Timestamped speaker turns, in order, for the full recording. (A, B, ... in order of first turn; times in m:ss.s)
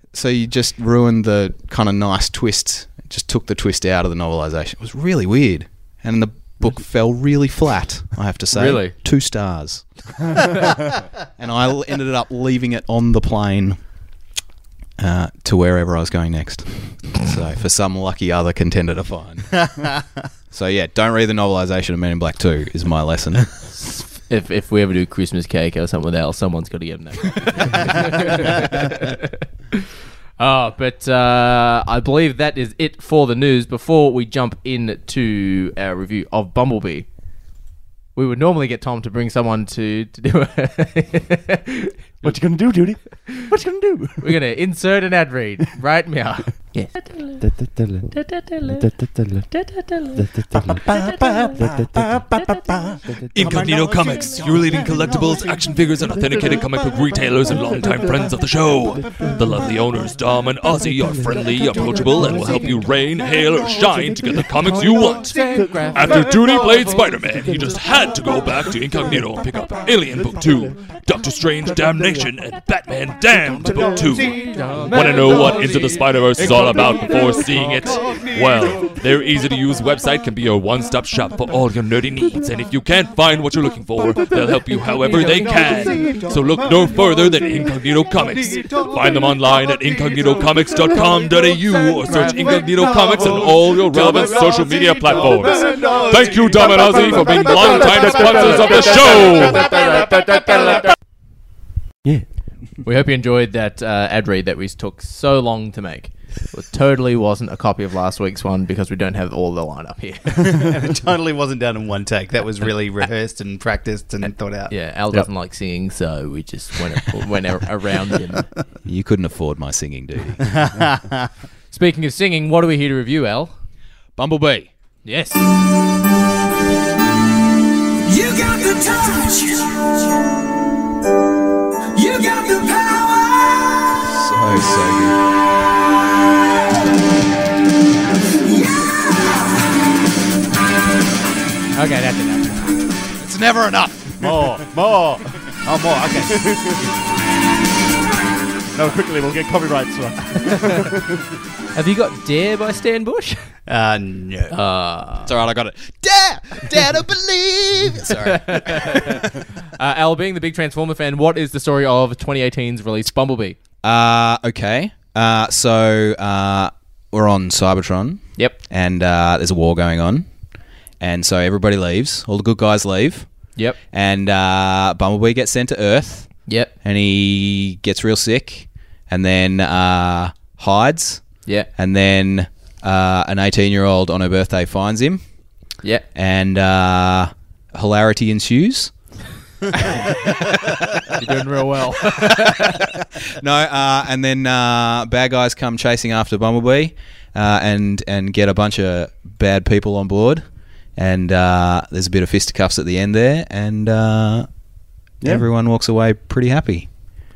0:00.1-0:10.5 A
0:08.5-0:08.9 B
0:11.4-0:13.8 A
0:15.0-0:19.5 A
0:19.7-0:20.0 C
0:20.5-0:23.6 A
0:24.1-0:29.8 B
0:30.4-0:37.1 B
0:38.2-0:42.4 B
0:42.2-0:44.4 D
0:43.3-0:43.5 B
0:44.2-0:46.9 B
0:47.4-0:48.1 D
0:48.4-0:48.8 B
0:48.7-0:49.5 D
0:50.2-0:52.8 D
0:53.3-1:05.4 E
1:05.1-1:06.2 B
1:05.9-1:39.9 E
1:14.5-1:16.0 B
1:25.2-1:26.2 C
1:33.0-1:34.8 F
1:35.6-1:36.9 C
1:35.6-1:39.1 F
1:42.8-1:50.7 B
1:50.3-1:54.7 C
1:54.2-1:58.5 B
1:58.8-2:00.4 A
2:00.4-2:01.3 C
2:01.7-2:03.5 B
2:04.2-2:04.7 A
2:05.0-2:05.4 B
2:08.0-2:10.3 F
2:11.9-2:14.0 F
2:14.0-2:15.2 A
2:18.4-2:19.8 F
2:21.7-2:22.8 B
2:23.2-2:24.2 A
2:24.2-2:25.4 D
2:25.6-2:26.5 C
2:26.2-2:26.9 D
2:28.7-2:31.2 D
2:31.7-2:33.5 B
2:33.7-2:34.5 C
2:34.5-2:35.3 B
2:35.2-2:39.2 A
2:38.2-2:43.6 B
2:43.8-2:50.3 A
2:51.0-2:53.3 A
2:53.9-2:56.3 A
2:56.5-2:56.7 B
2:56.8-3:01.2 A
3:01.8-3:05.2 A
3:06.1-3:08.9 A
3:09.7-3:11.2 A
3:11.2-3:12.9 B
3:13.4-3:20.4 A
3:21.0-3:24.5 A
3:25.2-3:25.4 D
3:25.2-3:26.9 A